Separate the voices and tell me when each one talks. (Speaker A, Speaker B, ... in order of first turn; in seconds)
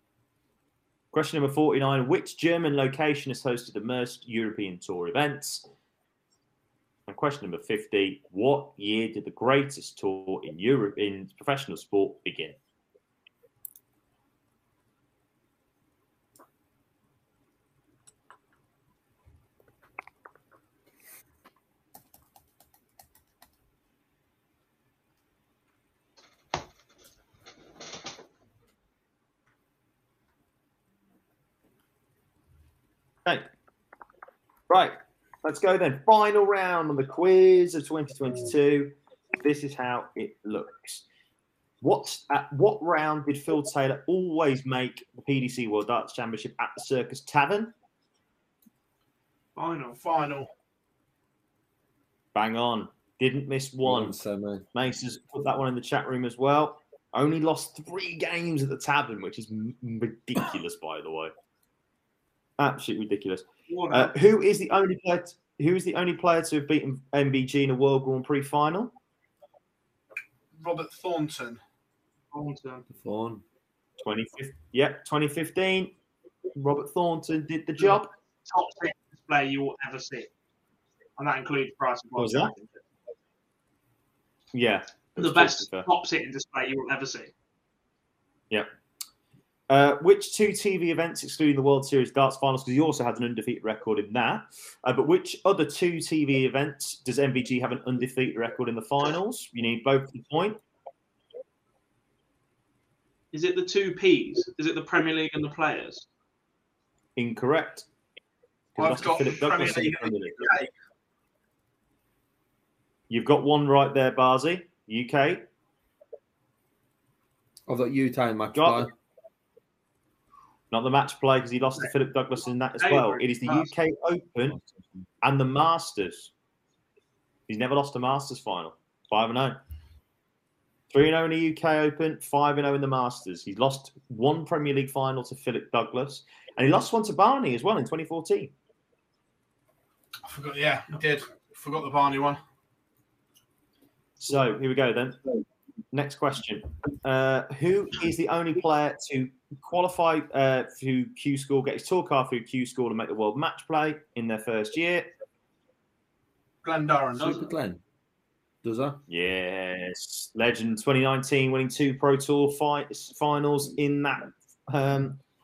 Speaker A: 1.1-5.7, 7.1-12.6, 34.7-41.0, 41.8-47.7, 52.3-54.2, 54.7-61.3, 62.6-68.9, 74.0-75.9, 76.5-78.1, 82.2-82.5, 84.5-85.9, 89.7-100.6, 107.2-107.9, 108.8-110.5, 113.1-115.5, 118.5-118.9, 120.7-124.6, 125.2-126.3, 127.5-129.6, 130.9-138.5, 144.2-145.2, 145.9-155.1, 159.1-165.2
Speaker B: 49.5-50.0, 63.7-64.1, 72.3-72.8, 77.8-80.3, 81.2-82.7, 85.2-87.3, 103.3-106.0, 122.8-123.7, 157.2-157.5
Speaker C: 50.0-50.5, 70.6-71.6, 108.8-110.7, 140.2-142.4, 156.6-157.4
Speaker D: 53.8-54.6, 72.9-73.4, 117.7-118.9, 157.2-157.8, 158.6-159.0